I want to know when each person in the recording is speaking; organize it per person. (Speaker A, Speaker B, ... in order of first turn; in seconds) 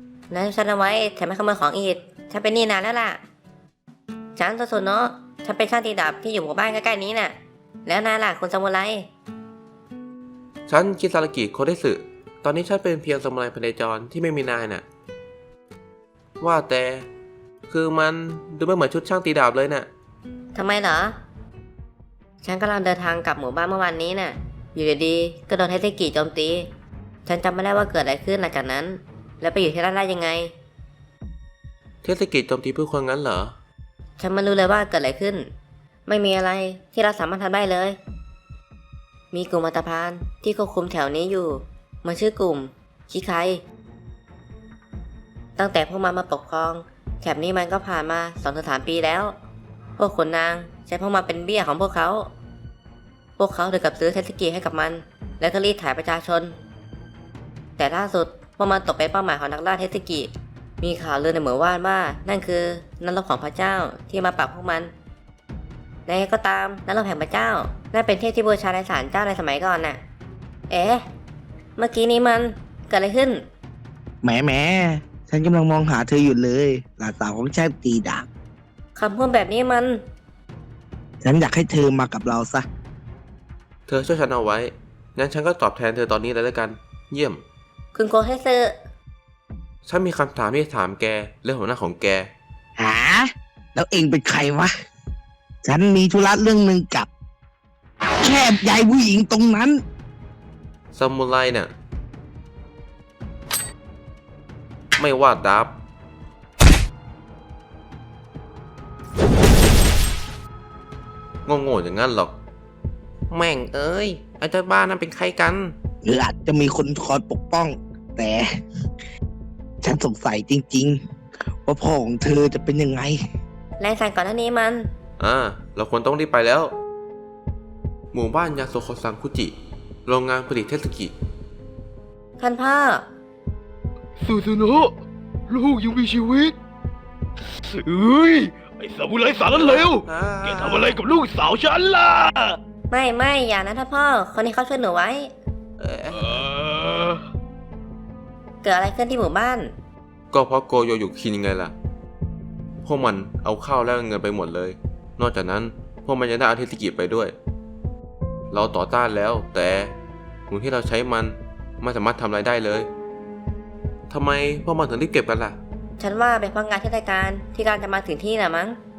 Speaker A: 0.3-3.2, 4.4-9.1, 20.5-21.2, 22.4-26.7, 27.2-30.5, 34.2-35.5, 36.1-38.0, 39.3-43.6, 45.6-49.4, 50.0-52.3, 53.4-56.6, 57.8-64.9, 66.1-70.0, 70.7-71.0, 71.8-73.4, 79.0-80.0, 87.9-88.7, 123.8-124.8, 132.4-133.1, 142.9-145.3, 148.6-149.7, 166.0-168.8
Speaker B: 10.7-14.8, 16.4-17.1, 17.7-19.9, 32.0-33.5, 83.9-87.4, 89.8-92.3, 100.9-101.7, 105.0-105.7, 111.5-112.3, 113.3-115.7, 125.2-126.7, 128.1-129.5, 130.1-131.1, 139.5-141.0, 145.8-146.5, 150.3-151.7, 152.8-157.3, 158.5-159.9, 160.5-162.9, 164.1-165.6
Speaker C: 74.2-78.2, 81.2-82.7, 92.8-94.7, 95.6-97.1, 98.2-99.8, 116.0-118.5, 119.8-121.0, 121.6-123.2
Speaker D: 134.2-134.9, 135.5-136.5, 137.7-142.6, 146.1-147.2